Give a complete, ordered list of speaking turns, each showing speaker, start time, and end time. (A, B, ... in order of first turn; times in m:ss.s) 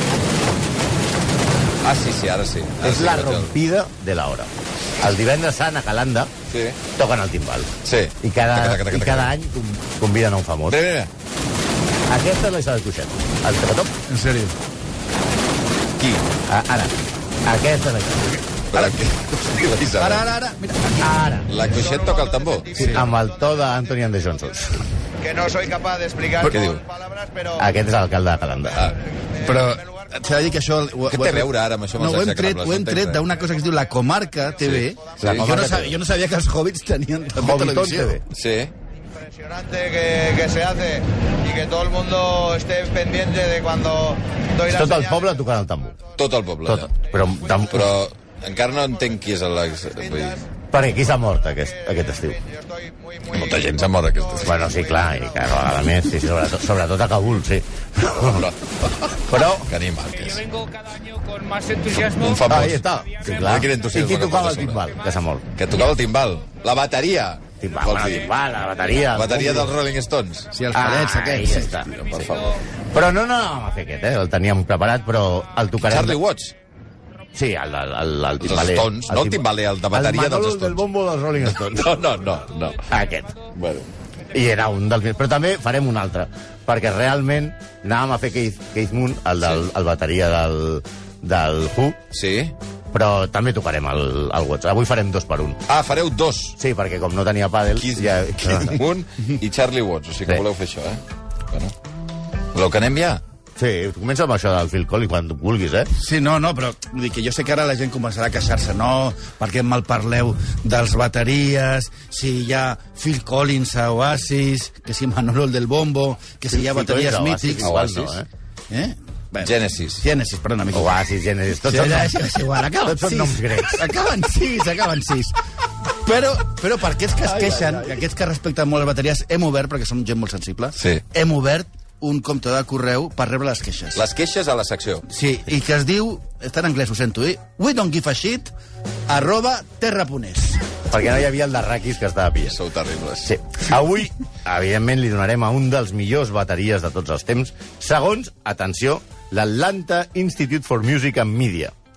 0:01.8-0:03.5 A
0:02.8-0:06.3 B
0:06.5-0:06.8 A
0:06.9-0:10.8 B
0:07.8-0:09.3 A
0:10.7-0:11.1 A
0:12.1-0:13.9 B
0:14.1-0:14.5 C
0:16.0-0:16.2 A
0:16.5-0:18.5 B
0:18.7-0:20.2 A
0:18.7-0:19.0 C
0:19.9-0:21.3 C
0:21.0-0:21.6 B
0:21.5-0:22.9 A
0:21.6-0:23.9 D
0:22.8-0:23.0 C
0:22.9-0:24.8 B
0:25.2-0:27.7 D
0:26.4-0:26.8 A
0:27.6-0:28.9 B
0:28.7-0:30.3 D
0:29.4-0:38.2 C
0:31.1-0:33.2 A
0:34.6-0:35.4 A
0:34.8-0:35.3 D
0:35.2-0:36.0 B
0:37.4-0:38.2 B
0:38.3-0:38.7 A
0:39.1-0:45.3 D
0:44.7-0:46.0 B
0:46.2-0:46.9 A
0:46.6-0:47.9 B
0:47.7-0:50.4 A
0:50.0-0:50.4 D
0:50.7-0:52.4 B
0:51.5-0:55.2 D
0:53.3-0:54.6 A
0:54.4-0:58.5 B
0:58.1-1:00.4 A
0:59.2-0:59.7 B
1:00.4-1:02.4 E
1:02.0-1:04.8 A
1:02.4-1:05.4 B
1:05.5-1:08.3 A
1:07.6-1:09.7 B
1:09.0-1:10.5 A
1:10.5-1:11.7 C
1:10.7-1:16.2 B
1:11.8-1:12.6 A
1:15.9-1:16.5 A
1:17.3-1:22.0 B
1:18.4-1:20.8 A
1:21.5-1:22.9 A
1:22.9-1:23.4 B
1:23.5-1:23.9 A
1:24.3-1:32.0 B
1:32.1-1:32.5 A
1:32.9-1:35.6 B
1:35.7-1:36.6 A
1:36.6-1:38.8 B
1:37.8-1:41.7 A
1:42.5-1:43.2 A
1:43.6-1:45.9 B
1:46.0-1:57.7 C
1:56.5-1:58.3 B
1:57.6-1:58.2 A
1:58.7-2:01.0 C
1:59.4-2:00.0 A
2:00.7-2:02.2 B
2:01.6-2:05.3 C
2:02.8-2:03.9 B
2:05.9-2:14.0 C
2:07.2-2:07.9 A
2:13.9-2:15.0 A
2:15.1-2:18.5 C
2:19.1-2:20.6 C
2:20.9-2:22.6 B
2:22.5-2:23.3 A
2:23.2-2:31.7 B